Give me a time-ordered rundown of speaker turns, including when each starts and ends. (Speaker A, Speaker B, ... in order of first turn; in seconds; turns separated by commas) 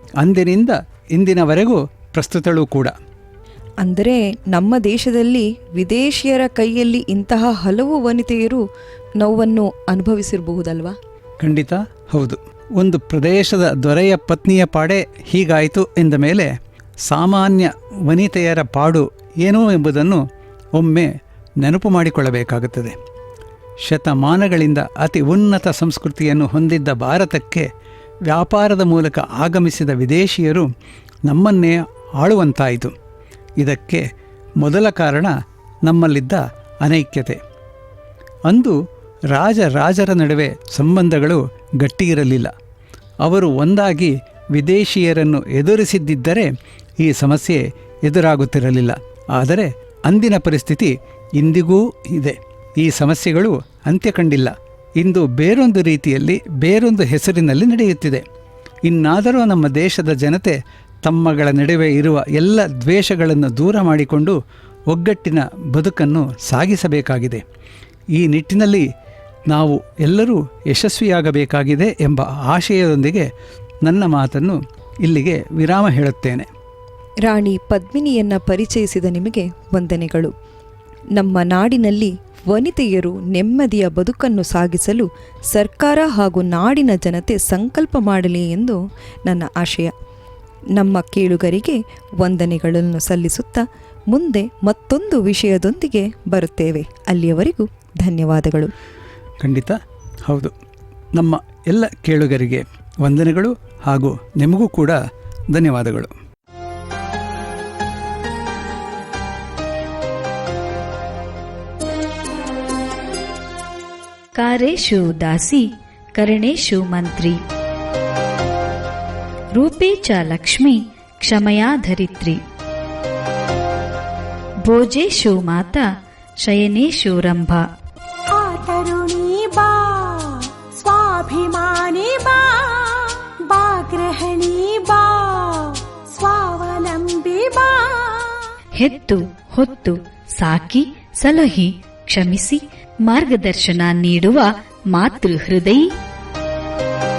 Speaker A: 0.2-3.0, Speaker B: 3.8-8.6, Speaker B: 9.2-10.9, Speaker A: 11.4-16.5, Speaker A: 17.0-22.9, Speaker A: 23.8-27.7, Speaker A: 28.3-30.7, Speaker A: 31.3-33.0, Speaker A: 33.6-34.1, Speaker A: 34.6-37.4, Speaker A: 38.5-38.8, Speaker A: 39.3-42.5, Speaker A: 43.2-58.2, Speaker A: 58.9-64.4, Speaker A: 64.9-67.4, Speaker A: 68.2-68.9, Speaker A: 69.5-73.3, Speaker A: 73.8-76.5, Speaker B: 77.2-80.3, Speaker B: 81.2-89.9, Speaker B: 90.8-98.7, Speaker A: 99.4-100.5, Speaker A: 101.1-105.0, Speaker A: 105.5-106.1, Speaker C: 114.4-117.4, Speaker C: 119.5-122.4, Speaker C: 124.6-125.9, Speaker C: 126.4-127.7, Speaker D: 128.3-138.5, Speaker C: 138.8-145.8